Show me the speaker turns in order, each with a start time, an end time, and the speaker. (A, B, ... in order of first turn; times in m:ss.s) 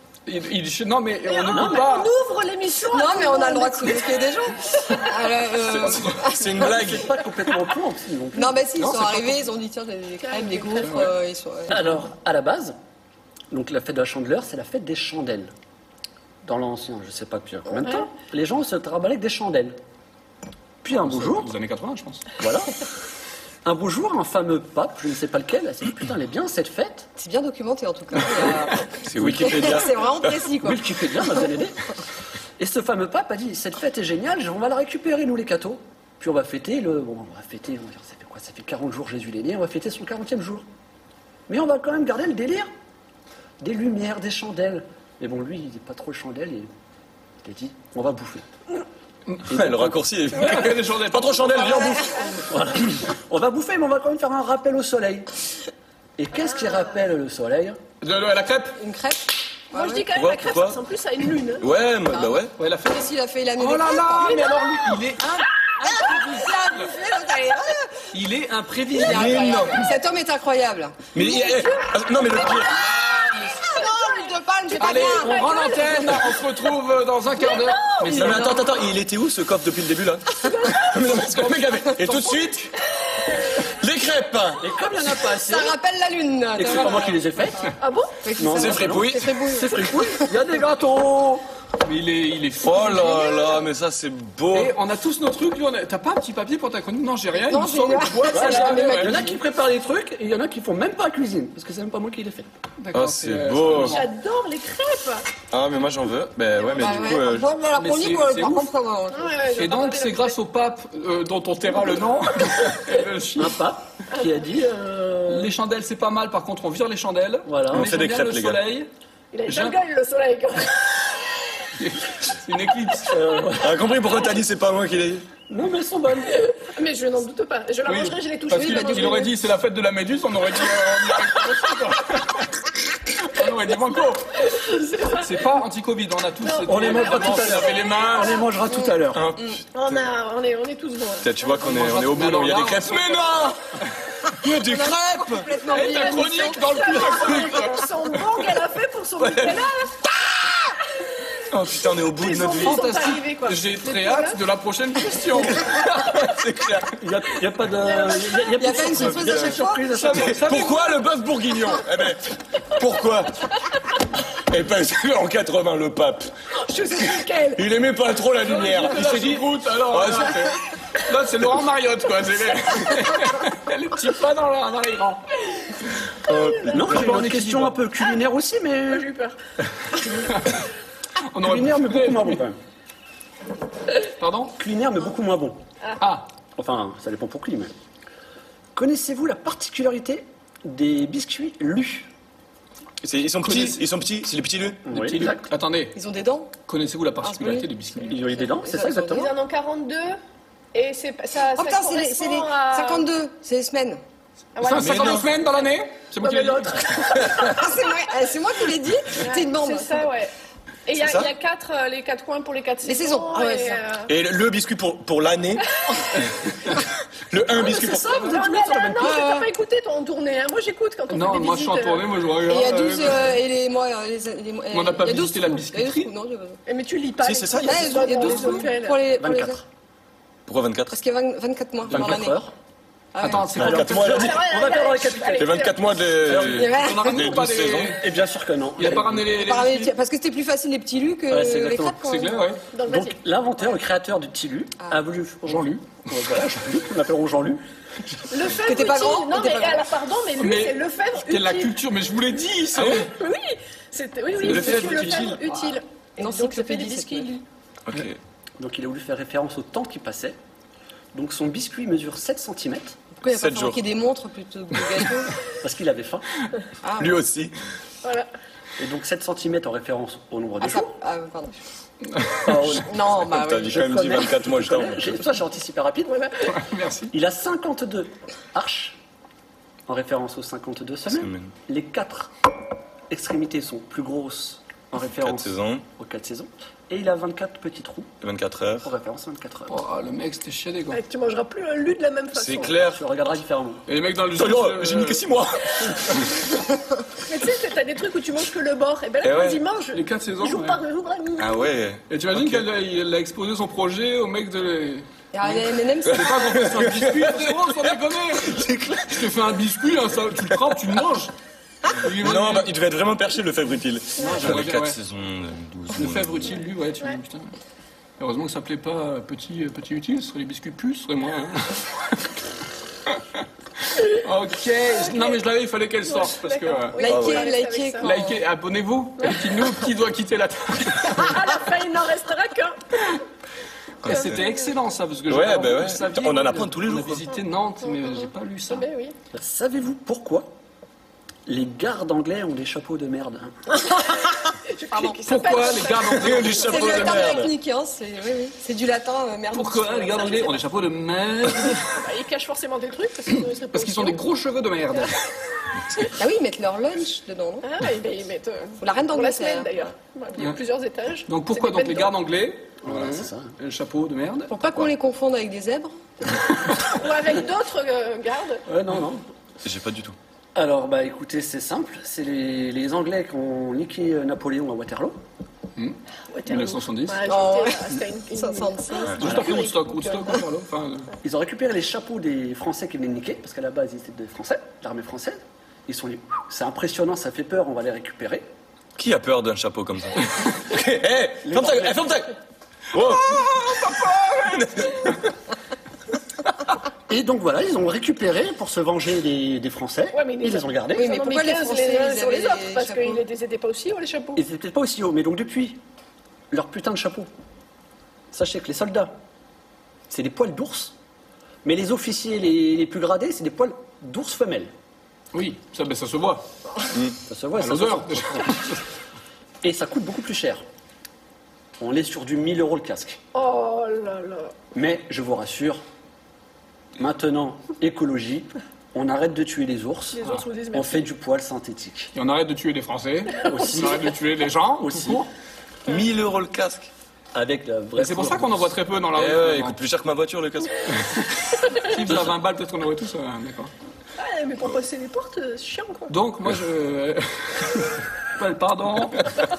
0:00.2-0:02.1 A
0:01.3-0:04.3 B
0:01.5-0:01.9 C
0:02.9-0:06.8 D
0:05.7-0:06.2 A
0:05.8-0:07.1 E
0:06.6-0:09.1 C
0:08.3-0:11.9 D
0:08.8-0:09.4 A
0:10.2-0:11.1 B
0:10.8-0:11.1 A
0:11.7-0:12.7 C
0:13.5-0:15.5 C
0:16.4-0:19.8 C
0:20.8-0:21.5 C
0:20.9-0:22.2 A
0:22.4-0:22.8 C
0:23.6-0:27.1 C
0:27.2-0:30.8 D
0:29.0-0:30.3 E
0:30.6-0:31.8 C
0:32.6-0:40.6 C
0:41.5-0:42.7 C
0:43.6-0:46.7 C
0:47.4-0:48.4 C
0:49.5-0:50.0 C
0:49.5-0:52.1 E
0:50.3-0:52.4 A
0:51.8-0:52.4 B
0:52.4-0:55.3 C
0:56.2-0:57.8 C
0:58.0-0:58.8 A
0:58.8-1:00.1 D
0:59.7-1:01.7 B
1:00.1-1:00.8 E
1:01.6-1:02.5 E
1:02.1-1:04.7 D
1:02.6-1:06.9 A
1:04.2-1:04.8 B
1:05.8-1:08.1 D
1:08.1-1:09.6 A
1:08.9-1:11.0 D
1:09.0-1:09.9 E
1:11.1-1:13.0 E
1:11.2-1:12.7 B
1:13.0-1:13.7 A
1:13.5-1:16.0 D
1:13.6-1:16.2 B
1:14.8-1:18.6 A
1:17.4-1:18.5 B
1:18.1-1:18.7 D
1:18.1-1:22.7 E
1:20.4-1:21.2 B
1:23.1-1:23.5 B
1:23.6-1:24.7 E
1:24.6-1:25.8 C
1:25.3-1:27.2 D
1:26.6-1:27.7 C
1:27.8-1:28.2 B
1:28.2-1:30.3 D
1:28.4-1:31.4 C
1:28.5-1:29.4 E
1:31.8-1:33.4 A
1:32.6-1:34.7 E
1:34.5-1:39.4 A
1:37.4-1:39.4 D
1:38.3-1:42.5 C
1:42.8-1:44.1 A
1:42.9-1:44.0 E
1:43.8-1:45.3 B
1:45.5-1:47.6 E
1:46.7-1:49.4 D
1:47.7-1:48.7 A
1:49.1-1:50.4 B
1:49.5-1:53.6 A
1:53.4-1:55.5 C
1:55.3-1:58.9 A
1:57.4-1:57.9 C
1:57.7-1:58.6 E
1:59.3-2:01.1 B
1:59.4-1:59.8 A
2:01.8-2:03.4 A
2:03.0-2:03.8 C
2:03.6-2:05.3 E
2:05.5-2:06.5 C
2:06.4-2:09.3 B
2:07.8-2:12.6 A
2:08.5-2:09.3 D
2:13.2-2:14.5 A
2:14.5-2:15.4 B
2:15.1-2:18.4 A
2:16.4-2:18.4 B
2:16.6-2:19.3 C
2:18.7-2:19.6 D
2:19.1-2:20.0 E
2:19.7-2:21.4 B
2:21.2-2:23.6 E
2:21.6-2:23.3 A
2:24.4-2:25.6 E
2:24.5-2:27.3 D
2:25.7-2:27.9 A
2:25.7-2:30.1 B
2:29.2-2:29.6 E
2:31.5-2:32.8 E
2:32.1-2:34.4 B
2:32.6-2:36.1 A
2:35.5-2:36.9 E
2:37.0-2:40.5 C
2:37.8-2:38.6 B
2:38.6-2:39.9 D
2:39.0-2:40.9 A
2:40.2-2:43.5 E
2:44.4-2:46.3 E
2:46.6-2:47.6 B
2:47.6-2:50.5 E
2:48.4-2:55.2 A
2:56.2-2:57.0 E
2:56.3-2:56.9 B
2:56.7-2:59.1 C
2:56.8-2:57.8 A
2:58.9-2:59.4 B
3:00.0-3:00.6 A
3:01.2-3:02.4 A
3:01.4-3:02.6 C
3:04.2-3:04.6 A
3:04.6-3:05.6 C
3:06.0-3:06.3 A
3:06.6-3:07.7 C
3:08.7-3:12.1 C
3:13.0-3:14.8 E
3:13.4-3:13.8 A
3:14.8-3:15.4 C
3:14.9-3:16.0 A
3:15.9-3:16.5 D
3:16.6-3:18.2 A
3:17.2-3:19.3 D
3:18.1-3:19.3 C
3:19.1-3:20.2 B
3:20.7-3:23.0 B
3:21.6-3:24.0 D
3:24.6-3:25.4 B
3:24.6-3:27.0 A
3:24.7-3:25.2 E
3:26.3-3:27.7 B
3:27.3-3:30.0 D
3:29.2-3:30.3 B
3:30.9-3:34.1 B
3:31.0-3:31.3 E
3:32.8-3:33.8 D
3:34.1-3:35.7 E
3:37.3-3:38.3 E
3:37.6-3:42.2 B
3:37.7-3:39.2 C
3:39.0-3:39.5 D
3:41.1-3:43.4 A
3:42.4-3:46.6 D
3:44.7-3:46.1 A
3:46.6-3:49.0 B
3:47.2-3:48.2 E
3:47.6-3:49.6 D
3:49.1-3:49.6 C
3:50.5-3:51.0 E
3:50.9-3:52.4 D
3:51.9-3:52.5 C
3:53.1-3:53.6 D
3:53.2-3:54.4 A
3:53.5-3:55.6 C
3:53.6-3:54.5 E
3:54.0-3:55.8 B
3:55.4-3:58.0 E
3:56.2-3:56.6 C
3:56.3-3:58.1 A
3:56.4-3:57.3 D
3:57.9-3:59.3 C
3:58.8-3:59.9 A
3:59.3-4:02.5 D
4:01.3-4:02.0 C
4:02.0-4:02.6 A
4:02.7-4:03.2 B
4:02.8-4:07.6 C
4:05.4-4:06.1 A
4:08.3-4:11.8 B
4:08.6-4:09.8 D
4:10.4-4:13.1 A
4:12.8-4:17.4 B
4:14.4-4:15.6 A
4:16.2-4:17.3 D
4:17.9-4:18.2 E
4:18.6-4:20.4 C
4:21.1-4:23.0 C
4:23.2-4:25.5 D
4:23.3-4:23.8 E
4:25.4-4:26.4 C
4:26.8-4:27.2 D
4:27.0-4:27.5 E
4:28.0-4:28.3 B
4:28.8-4:30.9 C
4:30.6-4:31.6 D
4:32.0-4:32.8 A
4:32.3-4:32.9 C
4:32.8-4:34.3 D
4:33.2-4:35.2 E
4:33.7-4:36.2 C
4:36.1-4:36.5 B
4:36.5-4:37.1 A
4:37.1-4:39.0 C
4:39.9-4:42.3 C
4:41.1-4:41.5 E
4:43.1-4:48.1 C
4:45.2-4:45.8 E
4:48.2-4:48.9 E
4:48.8-4:49.8 C
4:49.7-4:51.0 A
4:50.9-4:52.8 B
4:52.3-4:53.0 E
4:52.6-4:53.8 C
4:53.8-4:55.2 A
4:54.4-4:56.3 E
4:57.3-5:01.7 B
4:59.2-4:59.6 E
4:59.9-5:00.8 A
5:01.4-5:02.6 E
5:02.1-5:11.3 A
5:05.3-5:06.7 D
5:06.7-5:09.3 E
5:11.9-5:12.7 A
5:12.0-5:16.5 E
5:14.2-5:15.0 A
5:15.9-5:17.5 A
5:18.2-5:22.3 A
5:23.9-5:27.0 A
5:25.0-5:25.4 B
5:26.0-5:28.1 B
5:27.0-5:28.4 D
5:27.0-5:27.5 E
5:28.0-5:31.4 A
5:29.2-5:29.5 B
5:31.0-5:33.2 B
5:34.0-5:34.4 E
5:34.0-5:38.9 A
5:34.1-5:34.6 B
5:35.3-5:37.3 E
5:37.9-5:39.2 B
5:39.3-5:40.5 C
5:41.4-5:43.6 C
5:44.7-5:47.4 B
5:44.9-5:45.2 D
5:45.2-5:47.3 A
5:46.1-5:47.5 E
5:46.7-5:50.6 D
5:49.5-5:52.0 A
5:51.7-5:54.2 B
5:53.3-5:55.2 A
5:56.2-5:57.7 D
5:57.6-6:02.1 B
5:58.8-5:59.7 D
6:01.3-6:04.9 A
6:02.8-6:03.5 C
6:04.5-6:06.4 D
6:06.8-6:08.6 B
6:08.7-6:09.2 C
6:09.6-6:10.2 E
6:10.5-6:15.2 C
6:15.8-6:17.3 A
6:16.3-6:20.3 B
6:17.2-6:19.3 D
6:19.2-6:21.1 A
6:19.2-6:19.6 C
6:21.2-6:28.5 C
6:29.0-6:32.3 E
6:31.4-6:32.0 C
6:32.9-6:33.7 E
6:32.9-6:34.9 A
6:34.4-6:35.2 E
6:37.1-6:41.1 C
6:40.1-6:44.4 B
6:40.9-6:43.2 D
6:44.4-6:45.8 C
6:46.5-6:47.3 C
6:48.3-6:49.2 C
6:50.1-6:50.9 C
6:51.6-6:54.7 C
6:55.3-6:56.4 A
6:57.3-6:58.6 C
6:57.6-6:58.8 A
6:59.6-7:00.6 C
7:01.8-7:03.2 C
7:03.3-7:04.6 B
7:04.7-7:05.8 C
7:07.0-7:12.1 C
7:10.1-7:11.1 B
7:12.1-7:15.3 A
7:13.4-7:14.1 C
7:14.8-7:15.2 C
7:15.8-7:16.9 E
7:17.3-7:18.7 C
7:18.0-7:19.8 A
7:19.1-7:20.9 E
7:21.0-7:23.7 A
7:24.2-7:26.1 B
7:26.1-7:29.3 A